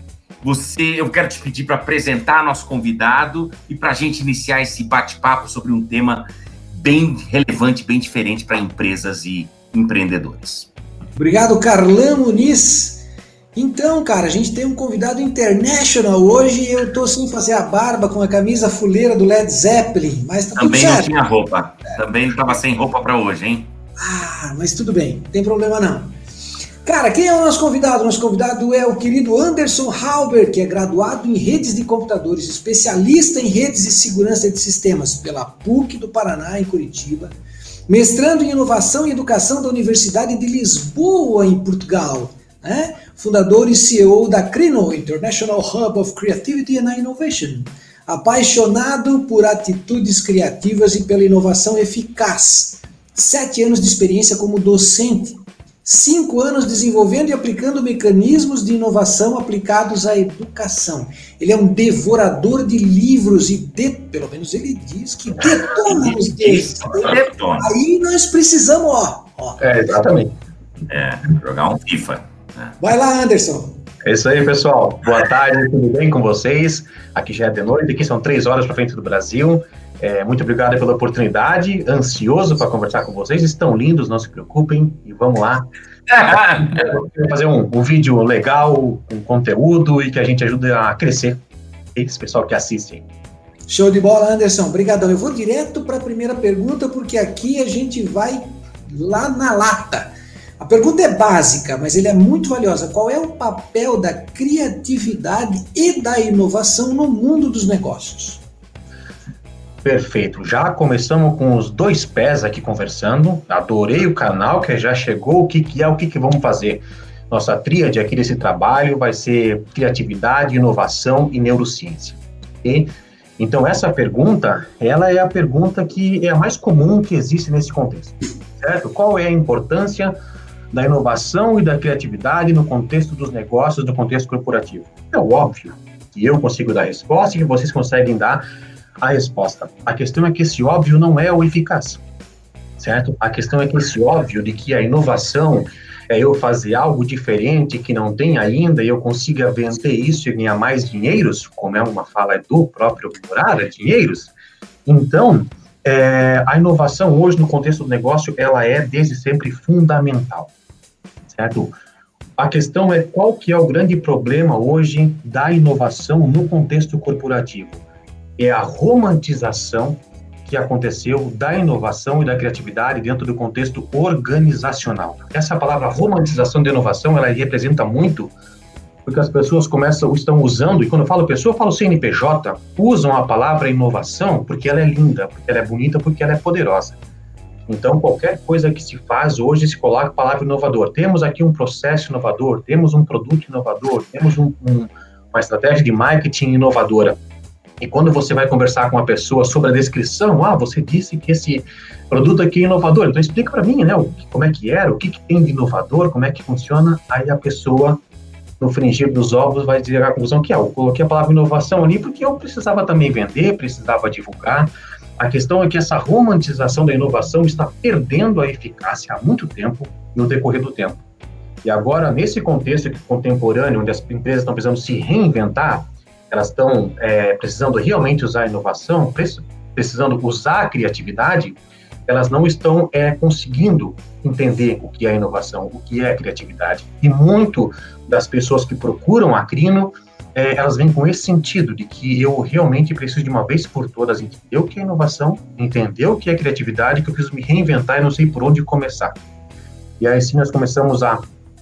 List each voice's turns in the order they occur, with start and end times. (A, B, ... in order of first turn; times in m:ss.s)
0:00.4-0:10.7 A
0:11.2-0:13.0 B
0:13.6-0:21.2 B
0:20.6-0:23.7 A
0:24.0-0:26.2 B
0:26.8-0:37.3 B
0:37.9-1:09.6 B
1:05.9-1:07.7 A
1:09.6-1:10.4 C
1:10.9-1:12.8 A
1:12.8-1:13.8 B
1:14.0-1:31.4 C
1:26.1-1:26.9 A
1:31.9-1:33.0 C
1:33.7-1:48.4 B
1:49.8-2:10.1 C
2:10.7-2:18.4 C
2:19.0-2:22.0 C
2:22.8-2:34.3 C
2:34.8-2:40.5 C
2:41.3-2:41.7 C
2:42.4-2:47.8 C
2:48.4-2:58.3 C
2:59.0-3:07.0 C
3:07.7-3:17.2 C
3:17.8-3:28.0 C
3:28.6-3:41.0 C
3:41.6-4:09.2 C
4:10.0-4:11.2 C